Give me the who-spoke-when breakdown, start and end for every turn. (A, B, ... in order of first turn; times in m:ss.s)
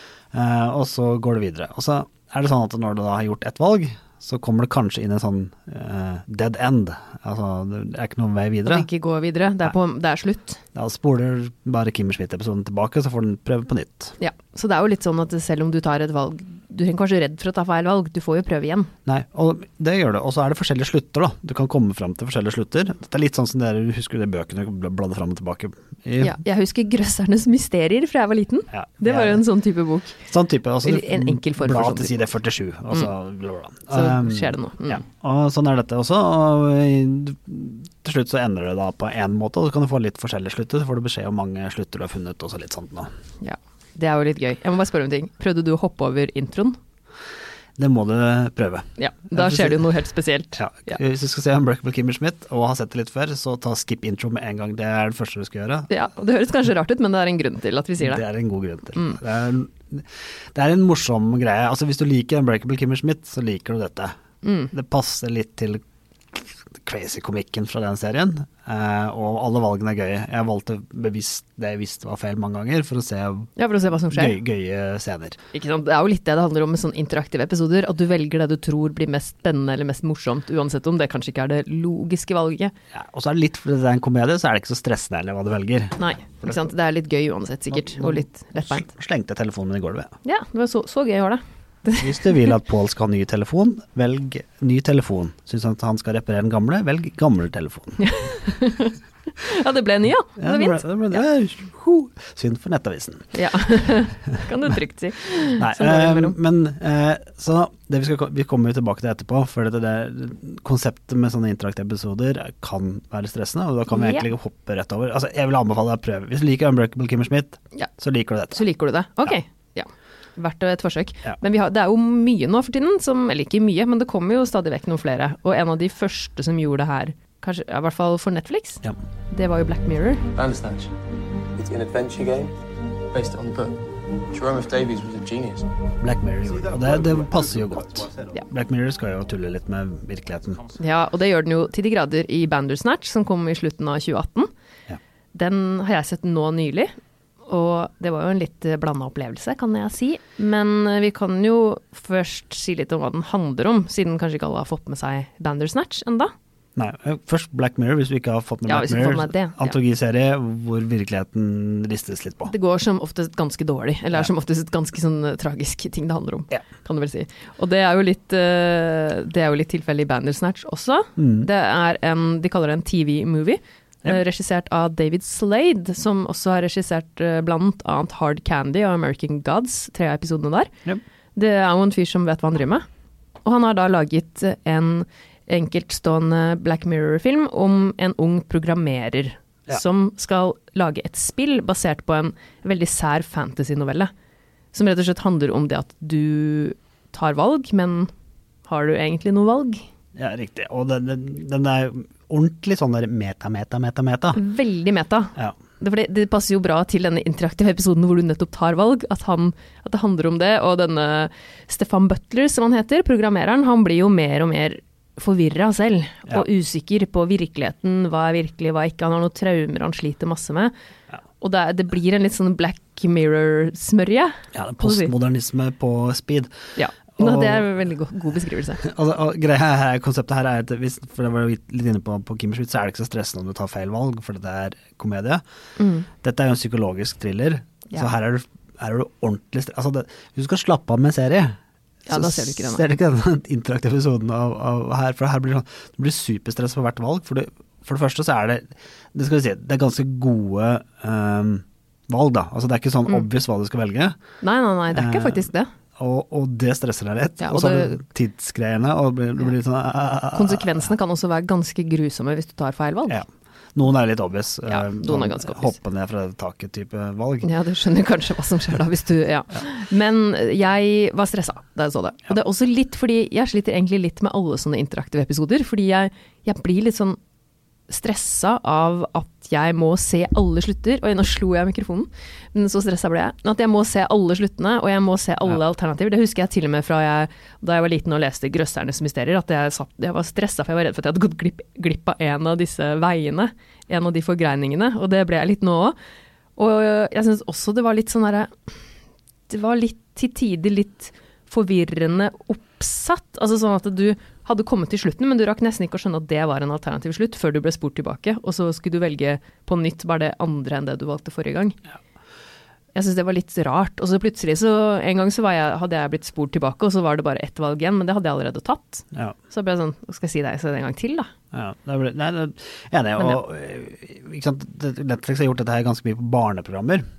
0:00.3-0:08.9 A
0:08.7-0:10.6 B
0:10.7-0:14.2 A
0:14.2-0:18.9 B
0:19.1-0:26.4 A
0:26.2-0:30.2 B
0:28.7-0:29.5 A
0:30.2-0:43.1 A
0:30.8-0:32.2 B
0:33.9-0:35.0 B
0:43.4-0:46.8 B
0:47.8-0:49.8 A
0:49.0-0:51.0 B
0:50.6-0:55.9 A
0:55.9-0:58.2 B
0:58.0-1:04.2 A
1:04.4-1:04.7 B
1:04.7-1:05.8 A
1:06.3-1:13.5 A
1:13.6-1:14.4 B
1:14.1-1:15.4 A
1:15.5-1:22.7 B
1:22.9-1:26.6 A
1:26.0-1:28.9 B
1:27.7-1:30.1 A
1:30.2-1:32.5 B
1:32.0-1:38.2 A
1:38.0-1:41.2 B
1:40.4-1:43.4 A
1:43.3-1:46.4 B
1:45.4-1:58.6 A
1:53.9-1:54.3 B
1:58.5-2:10.2 B
2:10.4-2:10.9 C
2:11.6-2:12.6 C
2:13.1-2:13.8 C
2:14.3-2:15.7 C
2:16.0-2:20.7 A
2:20.8-2:24.5 B
2:25.3-2:26.9 B
2:27.5-2:36.3 B
2:36.8-2:42.5 A
2:38.7-2:39.8 B
2:42.5-3:00.7 B
2:51.2-2:51.5 A
3:01.4-3:02.8 B
3:03.4-3:14.1 B
3:14.7-3:18.1 B
3:18.7-3:19.8 B
3:20.2-3:24.4 A
3:24.4-3:40.7 B
3:41.4-3:45.1 B
3:44.5-3:46.6 A
3:46.8-3:48.8 B
3:47.2-3:47.7 A
3:48.8-3:55.4 A
3:55.8-3:56.1 B
3:56.2-4:14.2 A
4:02.1-4:02.9 B
4:14.4-4:15.7 B
4:14.9-4:20.9 A
4:17.4-4:18.0 B
4:20.3-4:23.2 B
4:23.1-4:27.5 A
4:24.7-4:25.8 B
4:27.4-4:37.2 B
4:37.9-4:56.0 B
4:56.6-4:58.5 B
4:59.5-5:11.8 B
5:13.0-5:21.3 B
5:21.5-5:27.0 A